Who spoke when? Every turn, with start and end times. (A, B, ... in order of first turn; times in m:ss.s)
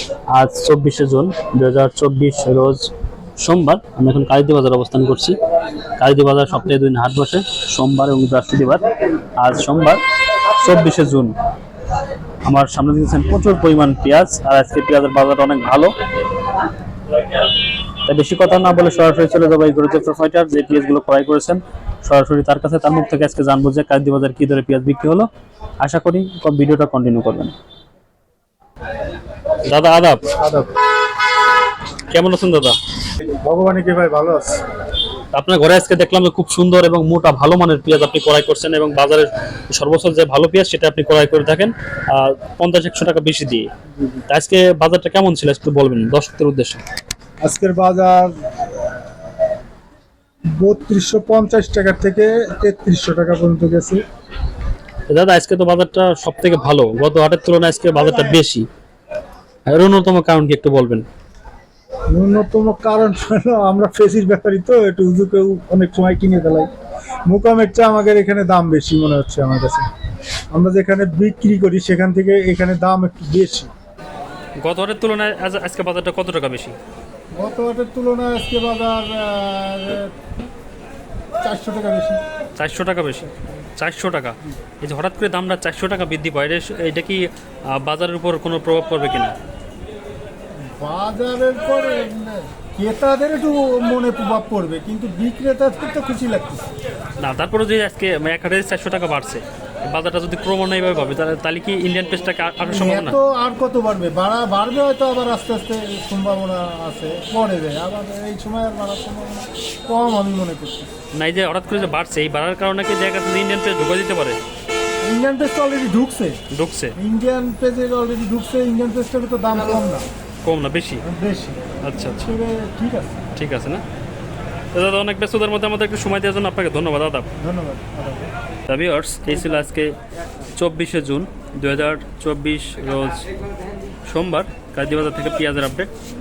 0:00.3-0:08.8 A
0:09.4-0:11.3 A
0:12.4-0:16.6 A
0:17.1-0:25.3 A
0:25.8-0:27.5 A
0:29.6-0:30.3 A
0:30.4-0:30.7 B
0:32.1-0:32.8 A
0:33.4-0:34.6 B
0:35.3-0:43.7 A
0:44.3-0:46.8 A
0:47.4-0:49.0 B
0:50.6-0:54.0 B
0:55.1-0:58.6 A
0:58.1-0:58.4 B
0:59.7-1:01.0 A
1:02.1-1:06.7 B
1:07.2-1:09.9 B
1:10.5-1:13.7 B
1:14.6-1:16.8 A
1:17.3-1:20.2 B
1:21.4-1:22.2 B
1:22.6-1:29.3 A
1:30.6-1:36.7 B
1:37.2-1:43.2 A
1:42.6-1:50.9 B
1:51.1-1:54.4 A
1:55.0-1:56.4 B
1:56.5-1:56.9 A
1:57.0-2:00.0 B
2:00.4-2:01.0 A
2:01.0-2:03.2 B
2:01.8-2:02.3 A
2:03.3-2:03.8 A
2:04.7-2:07.3 A
2:07.4-2:08.3 B
2:08.7-2:10.0 A
2:10.6-2:13.3 A
2:14.1-2:15.9 A